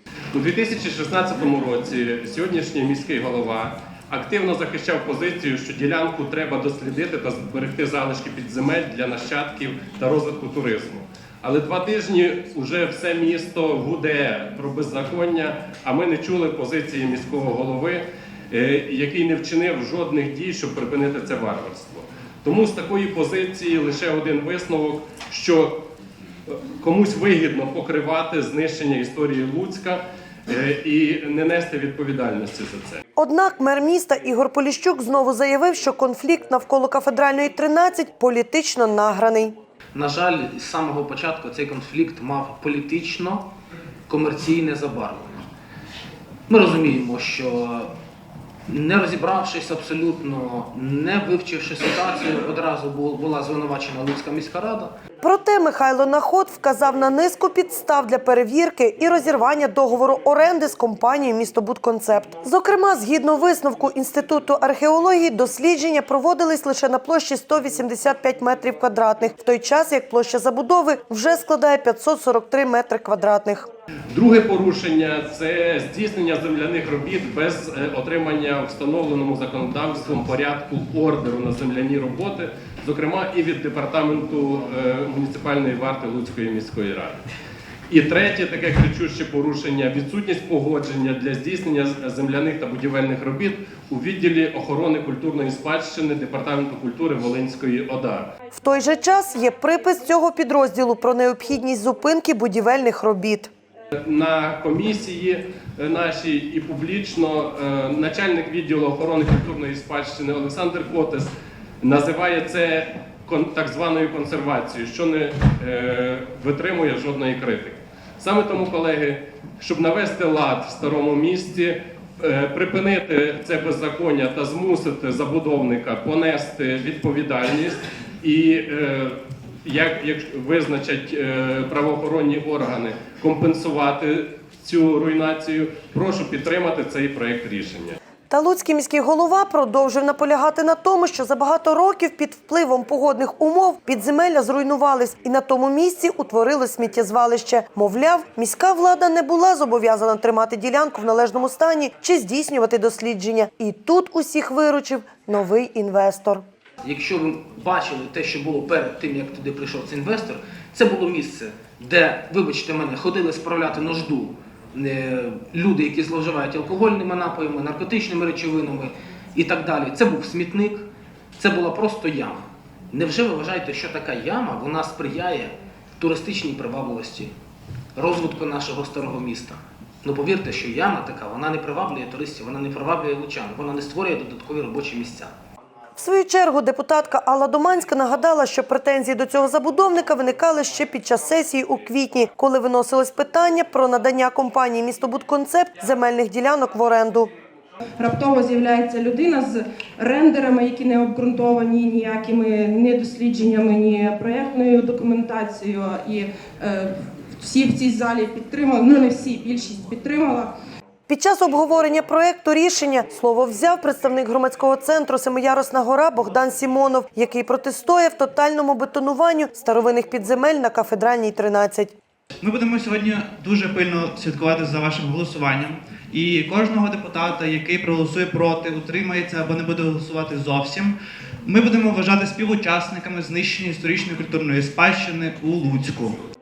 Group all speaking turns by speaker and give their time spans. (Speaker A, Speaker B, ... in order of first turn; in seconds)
Speaker A: 0.3-25.8, 26.5-33.0, 74.1-87.2, 87.9-98.3, 104.0-138.0
Speaker B: 33.1-39.5, 55.2-73.7, 98.5-103.5, 138.3-156.4, 185.9-197.3, 211.1-221.9
Speaker C: 39.9-43.5, 44.1-45.5, 46.5-47.9, 48.7-54.9, 156.8-177.3, 177.9-185.3
Speaker D: 198.0-206.9, 207.4-210.5
Speaker E: 222.4-236.2